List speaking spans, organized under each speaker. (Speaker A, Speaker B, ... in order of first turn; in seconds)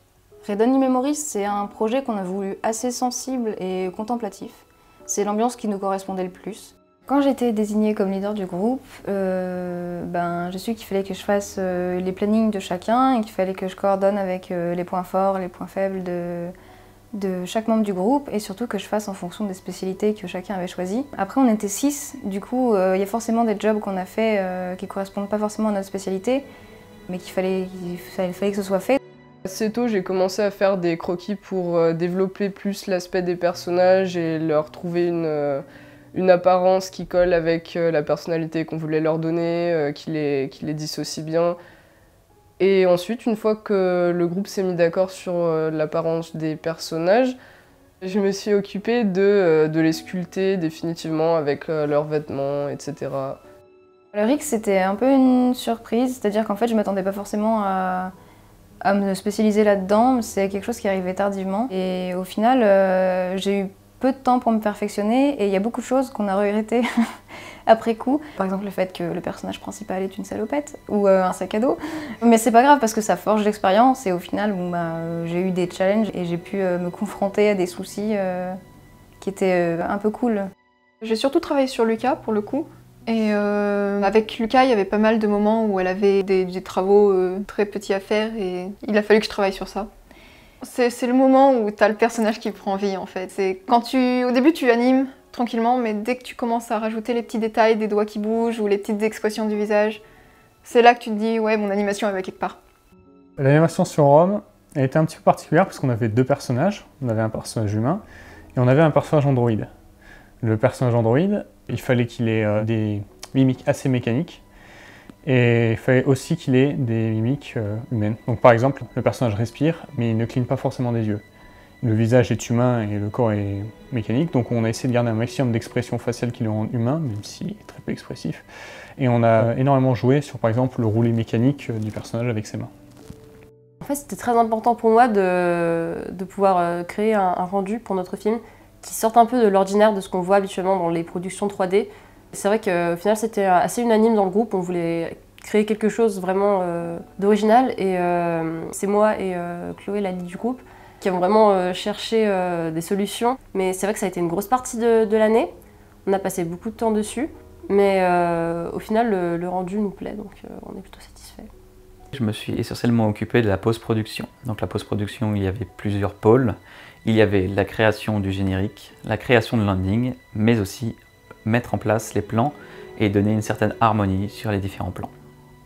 Speaker A: 0.4-16.5, 17.1-26.5, 27.1-29.0, 54.1-58.1, 58.8-66.9, 67.7-78.6, 79.2-80.5
Speaker B: 29.4-41.6, 42.6-47.4, 48.0-53.4
Speaker C: 81.0-89.9, 90.6-100.0, 100.6-102.6
Speaker D: 103.4-108.0, 108.6-109.7, 110.4-114.4, 115.2-121.2, 121.8-128.4, 129.0-132.7
Speaker E: 133.8-155.5, 156.0-161.5
Speaker F: 162.1-175.1